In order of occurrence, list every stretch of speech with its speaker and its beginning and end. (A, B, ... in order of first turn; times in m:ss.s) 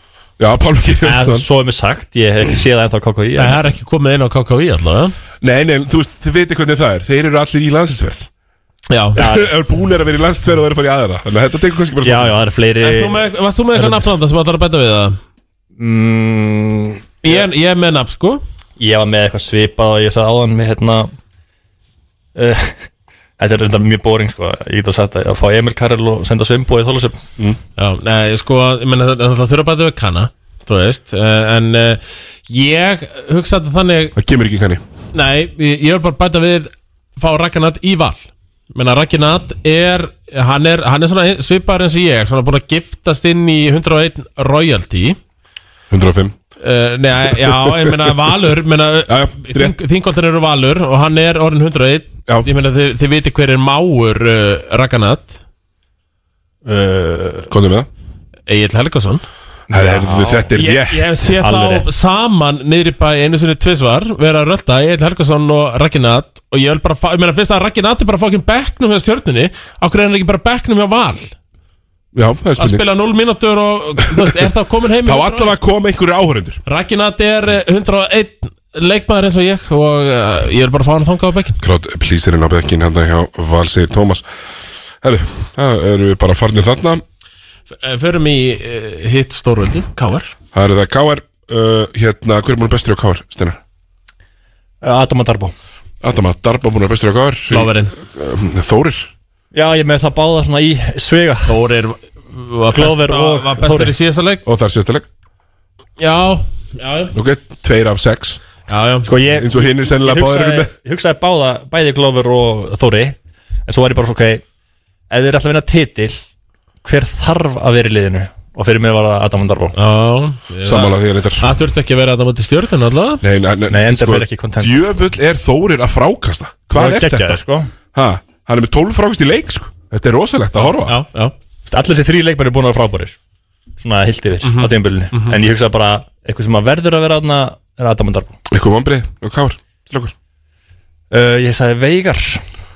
0:00.4-0:01.4 A
0:01.0-0:03.6 B
0:03.4-0:05.1 C
0:05.4-0:08.3 A
0:08.9-0:09.2 C
0:09.2-0:09.6 B
0:09.2-0:12.4 A
0:12.0-0:14.1 B
0:12.8-0:15.2 C
0:15.8-0:17.5 B
0:17.2-0:18.4 C
0:18.8-0:21.1 B
0:22.4-0:22.9 B
0:23.4-0:27.2 B
0:27.8-0:34.1 C
0:34.2-0:34.8 A
0:35.1-0:45.2 C
0:45.9-0:46.4 A
0:46.6-0:55.4 C
0:47.4-0:47.9 A
0:49.1-0:49.8 A
0:56.6-0:57.5 B
0:57.5-0:57.9 A
0:58.5-0:59.2 C
0:59.7-1:00.5 B
0:59.7-1:01.1 A
1:00.5-1:11.3 C
1:01.4-1:01.8 B
1:12.1-1:12.8 A
1:12.6-1:15.5 C
1:15.0-1:16.6 A
1:16.6-1:21.6 C
1:21.6-1:24.2 A
1:25.0-1:27.0 A
1:27.8-1:30.3 C
1:30.5-1:33.6 A
1:34.8-1:35.5 B
1:36.0-1:39.1 A
1:37.5-1:37.9 C
1:39.5-1:41.6 B
1:41.5-1:44.4 C
1:42.7-1:43.9 B
1:44.4-1:45.0 A
1:46.0-1:47.1 C
1:47.1-1:48.4 A
1:48.7-1:49.1 C
1:49.0-1:53.2 B
1:49.3-1:50.7 A
1:53.7-1:54.4 B
1:55.1-1:56.2 B
1:56.8-1:59.8 B
1:59.8-2:03.2 C
2:00.6-2:01.5 A
2:03.2-2:07.4 A
2:03.7-2:04.8 B
2:06.7-2:07.7 B
2:07.9-2:11.0 A
2:10.8-2:11.3 C
2:11.6-2:13.2 B
2:13.8-2:18.4 B
2:14.4-2:15.3 C
2:18.5-2:20.1 A
2:21.1-2:22.4 B